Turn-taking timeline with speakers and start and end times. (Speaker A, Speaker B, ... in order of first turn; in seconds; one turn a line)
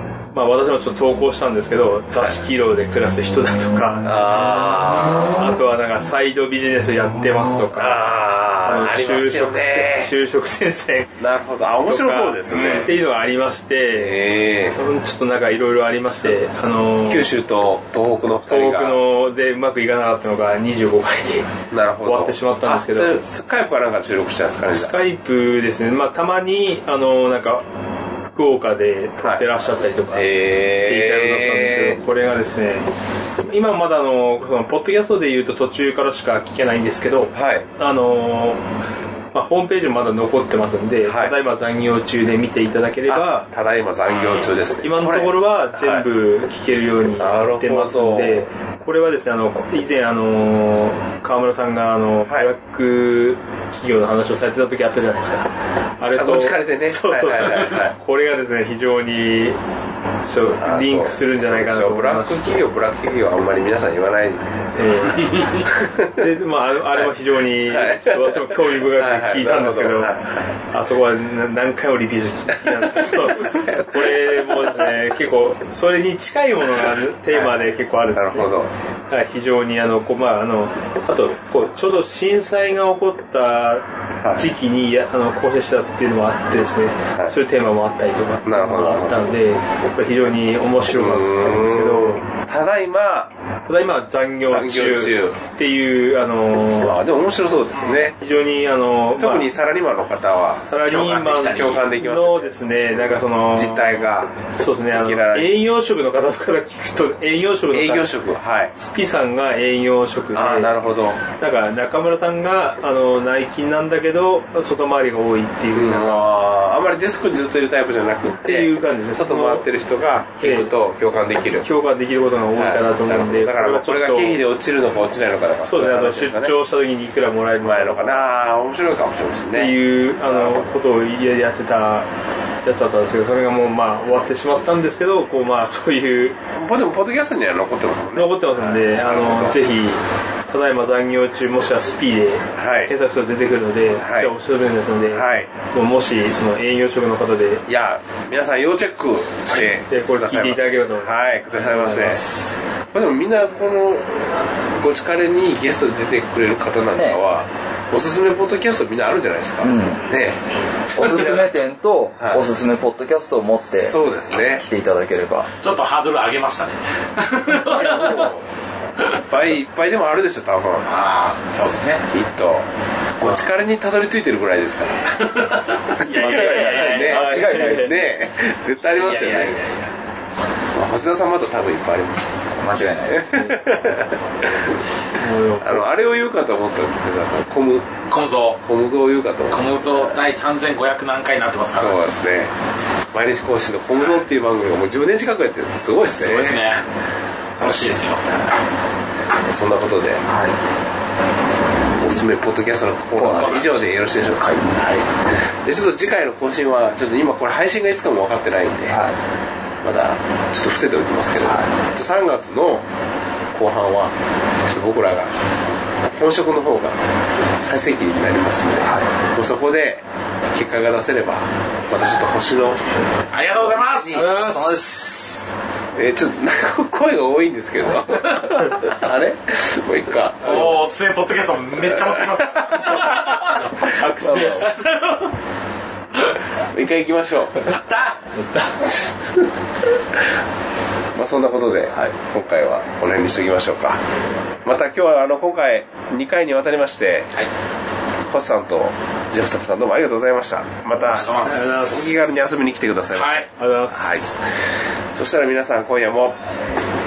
Speaker A: 0.3-8.1
Speaker B: 4.0-5.4
Speaker B: 7.7-10.1
Speaker A: 8.7-11.1
Speaker B: 11.2-12.9
Speaker A: 11.9-17.3
Speaker B: 13.9-14.8
Speaker B: 17.1-19.0
Speaker A: 18.5-21.5
Speaker B: 21.7-25.0
Speaker A: 22.1-23.2
Speaker A: 24.7-27.6
Speaker A: 28.3-32.9
Speaker B: 29.2-29.5
Speaker B: 30.1-32.0
Speaker A: 33.4-38.6
Speaker B: 37.3-37.7
Speaker A: 39.3-43.5
Speaker B: 41.0-41.4
Speaker B: 43.1-46.1
Speaker C: 44.1-44.6
Speaker A: 44.8-55.5
Speaker B: 47.2-48.5
Speaker A: 56.0-59.6
Speaker B: 56.1-58.0
Speaker A: 60.2-62.6
Speaker B: 60.6-66.2
Speaker A: 64.8-65.6
Speaker C: 65.3-65.6
Speaker A: 66.2-70.1
Speaker B: 67.0-70.4
Speaker A: 70.7-78.5
Speaker B: 73.0-74.1
Speaker B: 77.3-77.6
Speaker B: 78.1-78.7
Speaker A: 79.1-92.2
Speaker B: 84.2-84.5
Speaker B: 87.1-87.4
Speaker B: 88.5-89.2
Speaker B: 90.9-93.3
Speaker A: 93.7-97.0
Speaker B: 94.5-95.4
Speaker B: 96.8-98.2
Speaker A: 98.2-99.5
Speaker B: 99.2-102.6
Speaker A: 100.7-108.2
Speaker C: 100.8-101.8
Speaker B: 103.5-105.6
Speaker B: 107.7-108.7
Speaker A: 108.8-110.8
Speaker B: 110.3-111.2
Speaker A: 111.4-116.3
Speaker B: 115.7-121.7
Speaker A: 118.4-119.7
Speaker A: 120.4-120.7
Speaker A: 121.6-124.4
Speaker B: 122.5-126.5
Speaker A: 125.7-128.2
Speaker B: 127.6-130.7
Speaker A: 129.5-132.1
Speaker A: 132.6-136.4
Speaker B: 136.6-139.6
Speaker A: 138.1-147.6
Speaker B: 142.6-142.9
Speaker B: 144.0-144.3
Speaker B: 145.1-145.5
Speaker B: 147.7-152.3
Speaker A: 149.6-152.2
Speaker C: 151.8-152.5
Speaker B: 152.9-154.1
Speaker B: 154.8-160.4
Speaker D: 159.6-160.1
Speaker B: 160.9-161.5
Speaker D: 160.9-164.0
Speaker B: 162.2-162.4
Speaker B: 163.7-164.6
Speaker D: 164.6-165.5
Speaker C: 165.6-168.3
Speaker B: 167.5-168.4
Speaker B: 169.1-170.9
Speaker C: 170.9-172.1
Speaker B: 172.1-179.6
Speaker C: 175.3-177.6
Speaker D: 176.1-178.0
Speaker A: 176.2-178.0
Speaker C: 178.9-179.9
Speaker B: 180.7-182.5
Speaker D: 182.6-183.5
Speaker B: 183.1-184.7
Speaker A: 185.2-185.9
Speaker B: 185.6-188.0
Speaker C: 188.1-188.6
Speaker B: 188.6-190.2
Speaker C: 189.5-192.0
Speaker B: 191.8-192.5
Speaker B: 193.1-196.6
Speaker C: 196.2-196.8
Speaker C: 197.6-198.2
Speaker B: 197.6-198.0
Speaker B: 199.5-200.2
Speaker D: 200.3-200.6
Speaker B: 202.0-209.0
Speaker D: 203.2-203.6
Speaker C: 203.2-203.8
Speaker D: 208.9-209.2
Speaker B: 209.8-212.9
Speaker B: 213.5-215.3
Speaker B: 216.1-217.1
Speaker B: 217.6-222.8
Speaker C: 223.3-224.6
Speaker B: 223.8-224.3
Speaker D: 224.1-225.2
Speaker B: 225.9-230.8
Speaker C: 230.4-235.3
Speaker A: 233.8-234.7
Speaker D: 234.2-234.7
Speaker B: 236.7-237.7
Speaker C: 237.6-238.2
Speaker B: 238.8-239.5
Speaker B: 241.2-244.0
Speaker B: 244.7-247.3
Speaker B: 248.3-254.3
Speaker C: 251.0-251.7
Speaker A: 251.4-252.1
Speaker C: 253.2-253.5
Speaker A: 253.6-254.2
Speaker B: 255.1-256.4